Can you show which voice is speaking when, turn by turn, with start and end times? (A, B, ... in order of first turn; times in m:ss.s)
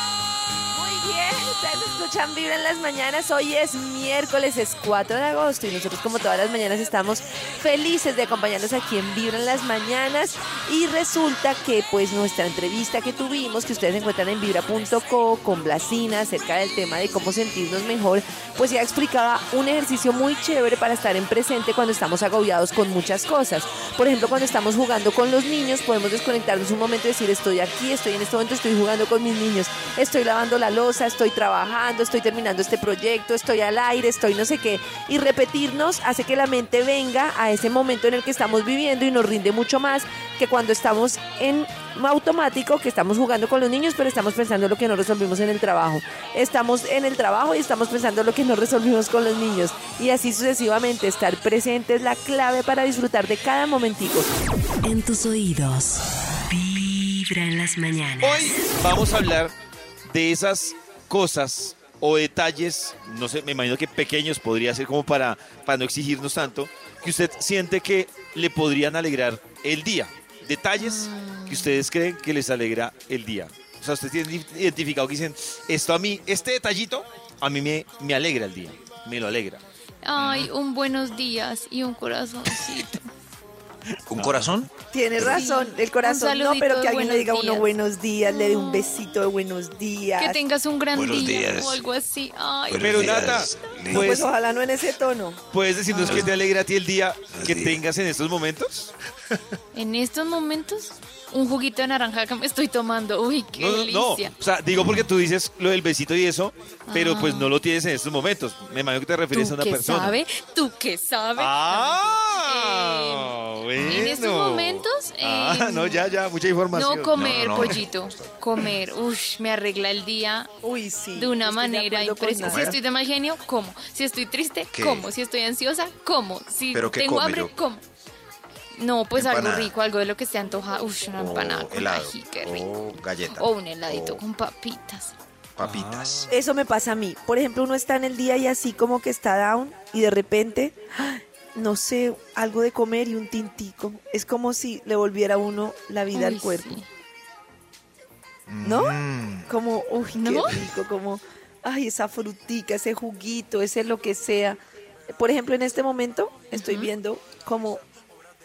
0:00.7-0:54.3 A
0:54.8-0:58.5 B
0:58.2-0:59.5 C
1:00.1-1:19.6 C
1:10.8-1:11.7 D
1:20.0-1:23.1 D
1:20.2-1:20.5 E
1:24.1-1:24.7 E
1:24.2-1:24.5 C
1:24.9-1:30.4 A
1:25.3-1:27.7 D
1:28.3-1:29.0 D
1:30.2-1:33.3 D
1:30.9-1:31.8 E
1:32.7-1:34.2 E
1:32.8-1:34.3 C
1:33.9-1:35.4 A
1:35.5-1:38.9 C
1:36.1-1:36.3 E
1:37.4-1:37.8 E
1:39.7-1:44.3 D
1:43.6-1:50.2 C
1:46.9-1:47.5 D
1:49.3-1:56.1 D
1:51.4-1:57.8 C
1:56.7-2:00.5 D
1:57.2-1:57.9 E
2:00.6-2:02.8 A
2:01.2-2:07.8 D
2:02.4-2:02.8 E
2:04.7-2:05.1 E
2:06.7-2:07.5 E
2:08.8-2:12.7 D
2:09.2-2:09.7 E
2:11.2-2:14.2 E
2:13.3-2:15.1 D
2:15.6-2:16.3 E
2:15.6-2:16.3 C
2:16.3-2:26.7 A
2:26.1-2:26.9 D
2:28.5-2:29.5 E
2:28.6-2:34.6 A
2:30.2-2:30.6 D
2:35.1-2:37.8 A
2:36.5-2:36.9 D